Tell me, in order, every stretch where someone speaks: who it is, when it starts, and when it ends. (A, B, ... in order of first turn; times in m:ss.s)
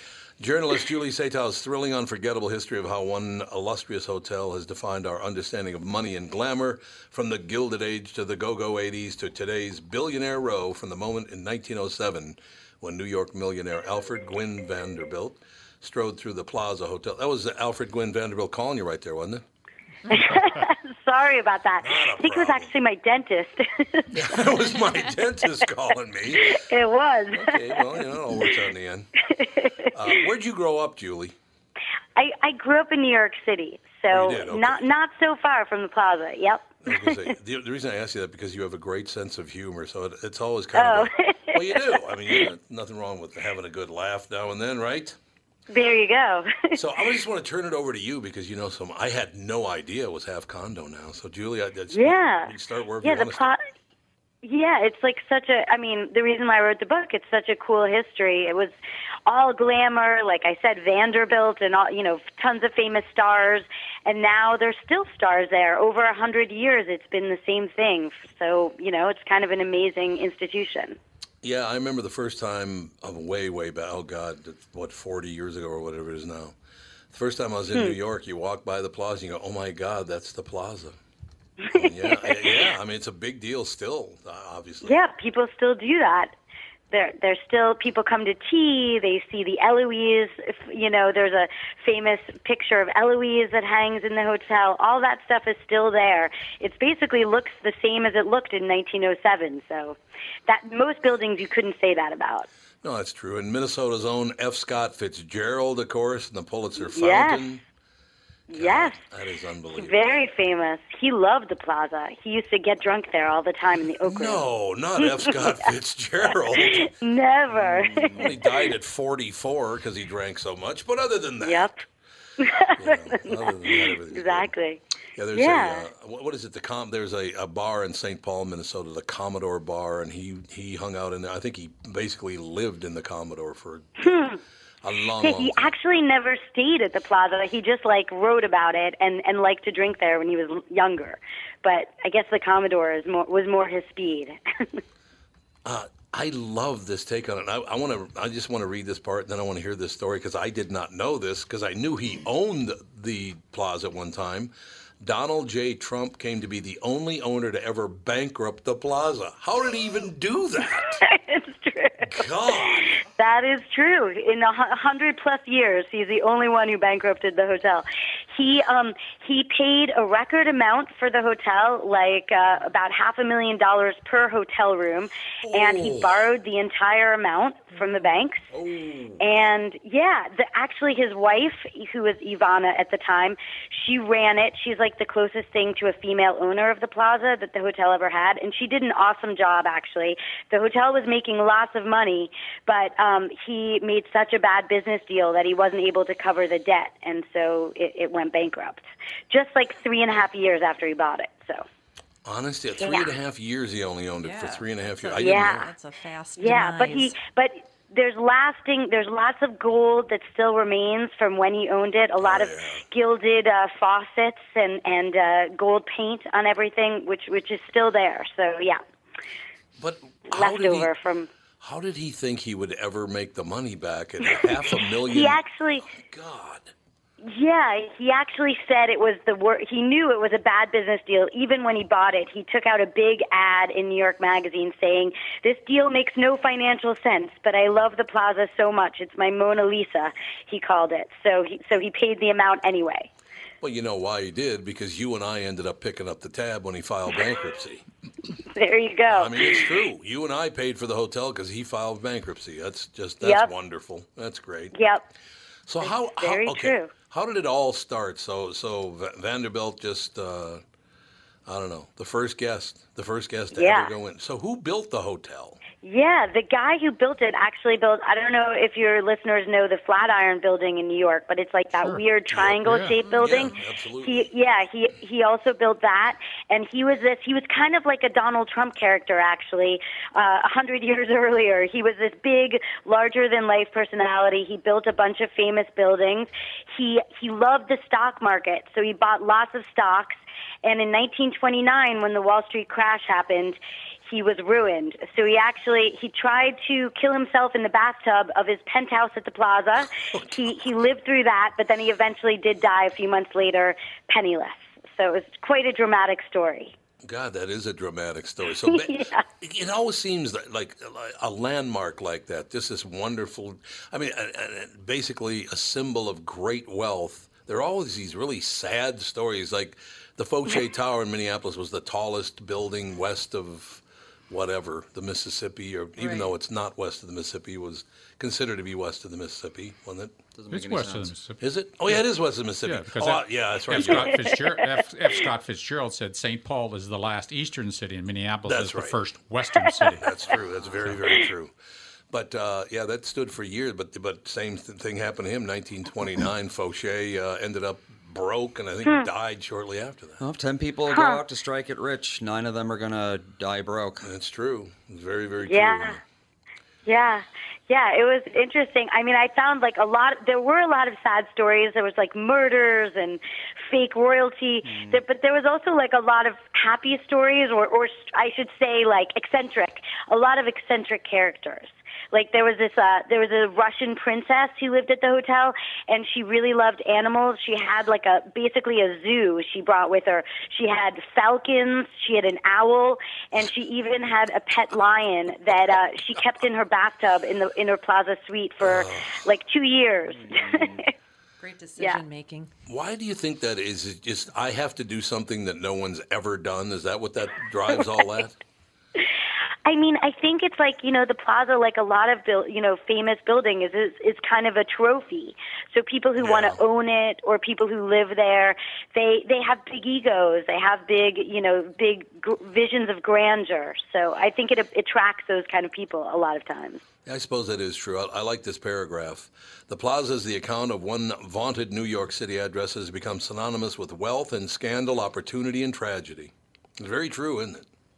0:00.4-0:19.4 A
0:20.1-0:24.4 B
0:21.8-0:22.7 A
0:24.1-0:26.6 A
0:26.3-0:28.5 B
0:27.3-0:29.1 A
0:29.3-0:30.2 B
0:29.9-0:31.3 A
0:32.2-0:37.3 B
0:34.1-0:34.8 A
0:36.8-0:45.2 A
0:40.7-0:42.4 B
0:45.7-0:46.8 B
0:46.7-0:53.5 A
0:51.9-0:53.6 B
0:54.4-0:58.7 B
0:59.2-1:11.0 B
1:11.4-1:16.5 A
1:17.1-1:21.0 A
1:21.7-1:22.6 B
1:21.7-1:25.0 A
1:24.8-1:26.3 B
1:26.9-1:42.5 B
1:42.8-1:47.6 A
1:46.8-1:47.4 B
1:48.5-1:49.0 B
1:48.5-1:50.1 A
1:49.8-1:54.4 B
1:54.0-1:56.9 A
1:55.0-1:55.7 B
1:56.5-1:58.7 B
1:57.5-2:01.7 A
2:01.4-2:01.8 B
2:02.4-2:04.8 B
2:02.8-2:04.5 A
2:05.2-2:15.7 A
2:05.3-2:05.8 B
2:14.0-2:14.4 B
2:15.2-2:24.8 B
2:25.6-2:41.0 A
2:41.0-2:58.5 B
2:42.0-2:43.0 A
2:55.4-2:56.2 A
2:58.5-2:59.2 A
2:59.2-3:21.6 B
3:22.2-3:25.7 A
3:22.8-3:23.1 B
3:24.2-3:27.2 C
3:25.2-3:25.6 B
3:26.4-3:38.8 B
3:32.2-3:32.8 A
3:39.8-3:40.9 A
3:40.3-3:41.3 B
3:41.6-3:46.7 A
3:44.2-3:45.8 B
3:47.2-4:03.1 B
4:03.6-4:07.8 A
4:08.5-4:09.7 B
4:09.1-4:14.7 A
4:13.2-4:13.5 B
4:14.7-4:15.0 B
4:15.7-4:20.6 A
4:15.8-4:16.9 B
4:21.4-4:25.6 A
4:23.5-4:23.9 B
4:25.8-5:06.7 B
4:32.3-4:34.3 A
4:32.6-4:33.0 D
4:33.0-4:33.3 C
4:59.9-5:00.6 A
5:07.0-5:30.1 A
5:08.7-5:09.2 B
5:26.0-5:26.3 C
5:30.3-5:31.1 E
5:30.5-5:32.0 D
5:31.4-5:34.3 A
5:32.6-5:41.0 D
5:38.5-5:39.0 A
5:40.0-5:41.5 A
5:42.1-5:50.2 A
5:50.2-5:54.1 E
5:50.9-5:51.2 B
5:54.0-5:56.0 A
5:55.4-5:56.0 B
5:56.8-6:30.9 B
6:04.6-6:05.0 E
6:28.6-6:29.2 A
6:30.1-6:30.8 E
6:31.4-6:32.5 C
6:32.7-6:38.4 A
6:39.6-6:56.8 B
6:46.2-6:46.6 A
6:57.0-7:07.6 A